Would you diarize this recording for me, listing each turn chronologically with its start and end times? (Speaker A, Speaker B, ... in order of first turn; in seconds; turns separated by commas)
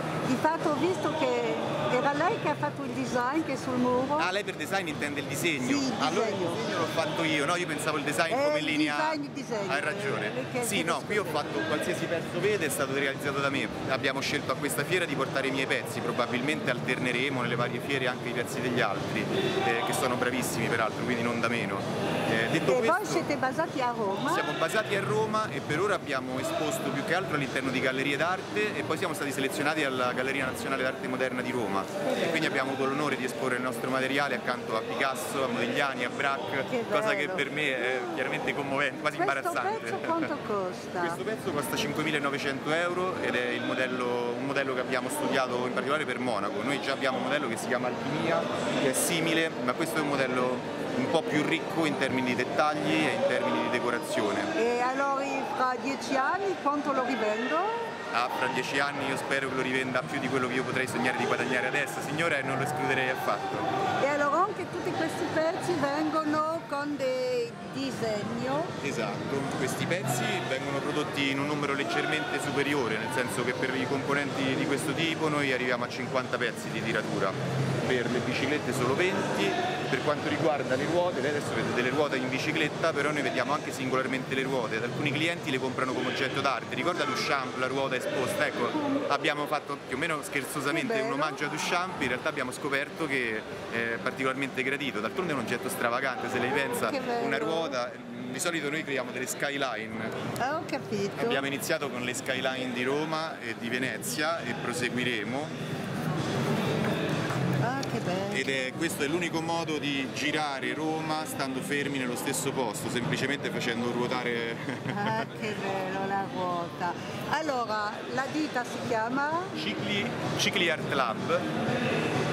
Speaker A: 0.3-4.3, Speaker B: 4.2-23.2, Speaker A: 5.6-6.6, Speaker A: 8.3-11.4, Speaker A: 22.7-24.5, Speaker B: 24.3-40.3, Speaker A: 36.7-38.2, Speaker A: 39.1-41.2, Speaker B: 41.0-54.5, Speaker A: 54.5-57.9, Speaker B: 58.1-63.7, Speaker A: 64.0-68.7, Speaker B: 68.8-100.2, Speaker A: 90.7-91.4, Speaker A: 96.7-97.8, Speaker A: 100.4-101.4, Speaker B: 101.2-105.5, Speaker A: 107.6-108.5, Speaker B: 108.3-115.3, Speaker A: 114.9-119.5, Speaker B: 119.5-121.5